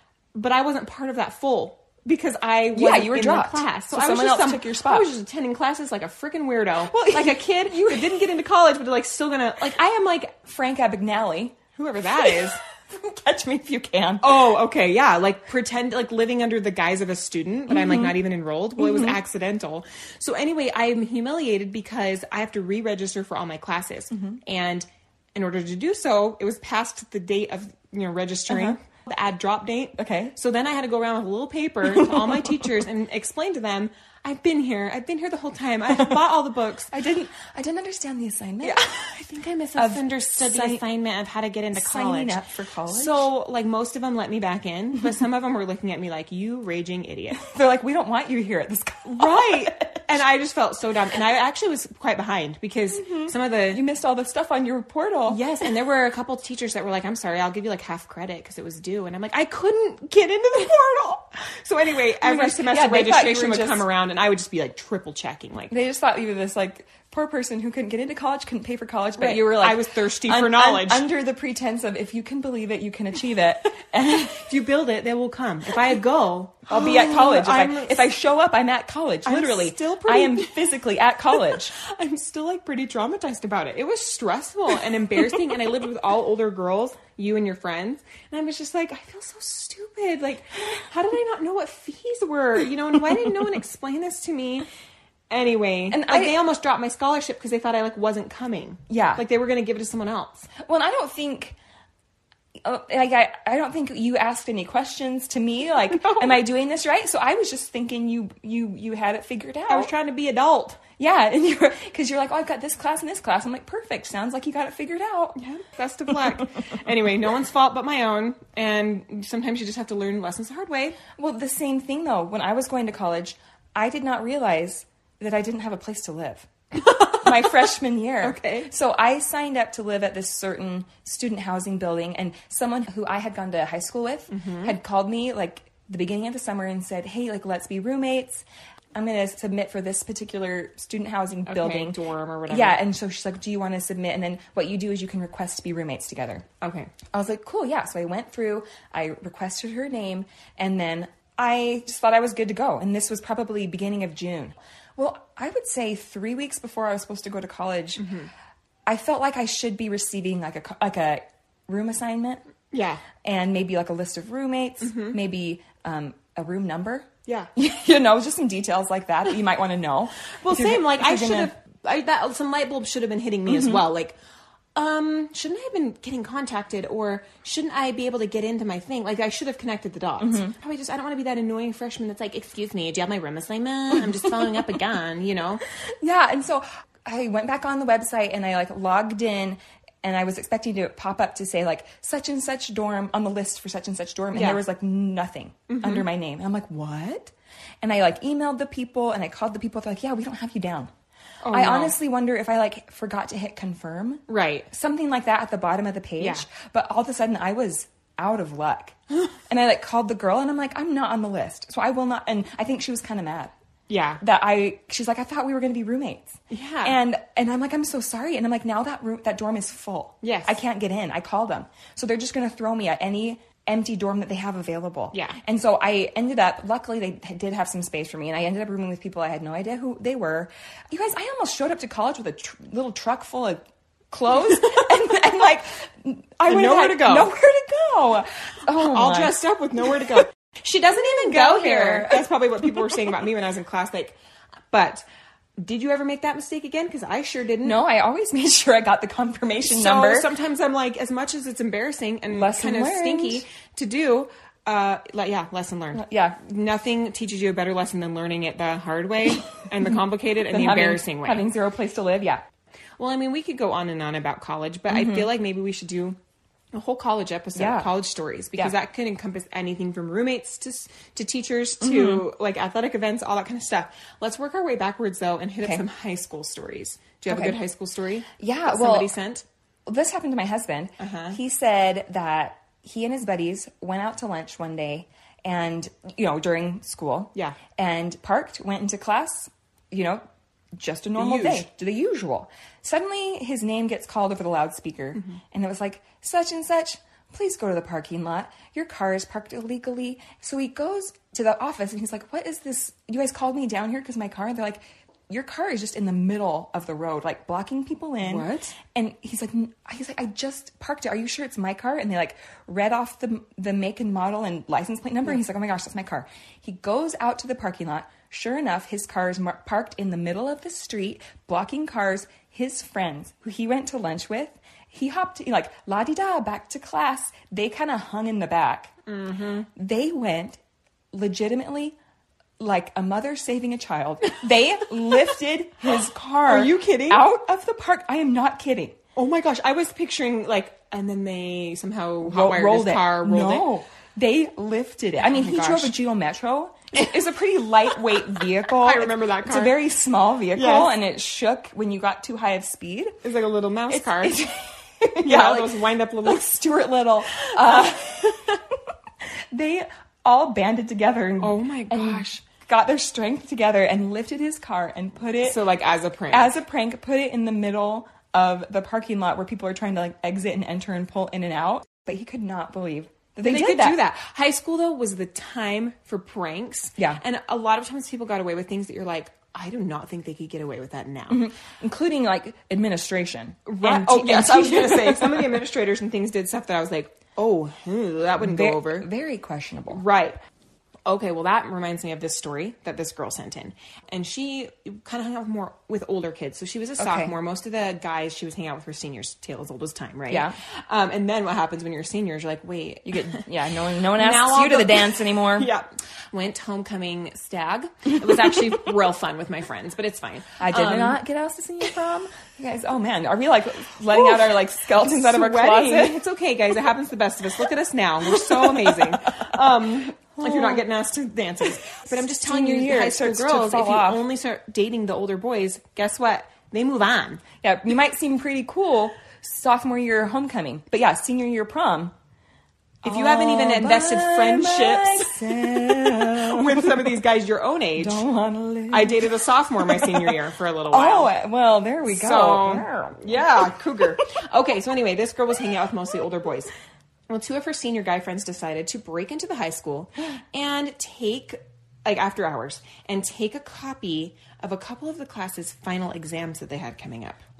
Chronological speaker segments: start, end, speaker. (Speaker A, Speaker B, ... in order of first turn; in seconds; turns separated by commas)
Speaker A: 0.3-10.4, Speaker B: 2.7-5.1, Speaker B: 6.9-8.3, Speaker B: 10.4-11.6, Speaker A: 11.7-12.6, Speaker B: 12.1-14.5, Speaker A: 14.2-36.9, Speaker B: 17.7-18.1, Speaker B: 18.8-19.2, Speaker B: 24.1-24.4, Speaker B: 28.5-28.8, Speaker B: 30.0-30.3, Speaker B: 31.9-32.6, Speaker B: 36.9-39.0, Speaker A: 38.6-47.4, Speaker B: 39.8-40.8, Speaker B: 41.7-43.3, Speaker B: 47.4-50.1, Speaker A: 49.0-53.8, Speaker B: 52.9-55.4, Speaker A: 55.3-65.7, Speaker B: 62.2-63.8, Speaker B: 65.7-74.5, Speaker A: 69.2-71.1, Speaker A: 74.3-78.1, Speaker B: 76.7-81.8, Speaker A: 79.2-80.6, Speaker A: 81.3-94.7, Speaker A: 95.3-100.5, Speaker B: 95.9-96.4, Speaker B: 98.9-99.2, Speaker B: 100.5-101.5, Speaker B: 102.6-109.9, Speaker A: 109.7-110.8, Speaker B: 111.0-115.4, Speaker A: 115.4-121.0, Speaker B: 121.2-126.5, Speaker A: 126.8-127.5, Speaker B: 127.0-146.4, Speaker A: 128.2-128.7, Speaker A: 134.3-134.8, Speaker A: 141.4-142.8, Speaker A: 146.6-146.9, Speaker B: 147.1-158.1, Speaker A: 158.0-158.3, Speaker B: 158.9-162.4, Speaker A: 162.7-163.0, Speaker B: 163.2-171.5, Speaker A: 164.8-165.2, Speaker A: 170.4-174.2, Speaker B: 173.5-173.8, Speaker A: 174.7-185.6, Speaker B: 180.2-180.5, Speaker B: 186.0-200.9, Speaker A: 194.3-194.6, Speaker A: 195.7-196.1, Speaker A: 201.4-201.9, Speaker B: 201.5-209.0, Speaker A: 204.3-204.7, Speaker A: 206.2-206.4, Speaker B: 209.5-213.5, Speaker A: 213.9-214.2, Speaker B: 214.2-239.3, Speaker A: 216.5-216.9, Speaker A: 220.2-220.6, Speaker A: 236.5-237.3, Speaker A: 238.7-244.2, Speaker B: 241.0-242.2, Speaker A: 244.7-245.0, Speaker A: 245.6-247.8, Speaker B: 247.6-250.3, Speaker A: 249.6-261.4, Speaker B: 252.3-253.4, Speaker B: 255.9-256.4, Speaker B: 260.5-262.4, Speaker A: 263.0-266.2, Speaker B: 264.9-265.3, Speaker A: 266.7-279.4, Speaker B: 267.6-267.9, Speaker B: 271.8-272.2, Speaker B: 277.3-277.6, Speaker B: 278.4-279.1, Speaker B: 279.9-290.2, Speaker A: 281.0-281.4, Speaker B: 290.8-328.9, Speaker A: 291.2-291.6, Speaker A: 308.2-308.7, Speaker A: 329.1-329.7, Speaker B: 329.7-330.6, Speaker B: 331.1-331.9, Speaker B: 332.6-339.0, Speaker A: 336.5-337.2, Speaker A: 339.1-343.7, Speaker B: 342.2-353.2, Speaker A: 345.2-345.9, Speaker A: 348.6-349.8, Speaker A: 350.5-350.9, Speaker A: 353.2-354.4, Speaker B: 353.9-355.7, Speaker A: 355.2-356.7, Speaker B: 356.2-358.8, Speaker A: 357.4-357.9, Speaker B: 359.5-365.6, Speaker A: 361.4-362.3, Speaker A: 365.4-366.5, Speaker B: 366.3-374.0, Speaker A: 373.4-381.4, Speaker B: 381.3-385.6, Speaker A: 383.7-389.1, Speaker B: 388.4-390.0, Speaker A: 389.9-390.4, Speaker A: 391.1-403.4, Speaker B: 397.0-397.3, Speaker B: 400.3-400.5, Speaker B: 403.1-405.7, Speaker A: 404.1-411.2, Speaker B: 410.6-416.2, Speaker A: 414.1-414.4, Speaker A: 414.9-427.4, Speaker B: 418.4-419.0, Speaker B: 420.4-420.8, Speaker B: 422.2-424.2, Speaker B: 427.6-432.1, Speaker A: 433.0-438.2, Speaker B: 433.0-437.1, Speaker B: 438.0-440.4, Speaker A: 438.9-441.3, Speaker B: 440.9-443.6, Speaker A: 442.0-446.7, Speaker A: 447.3-457.4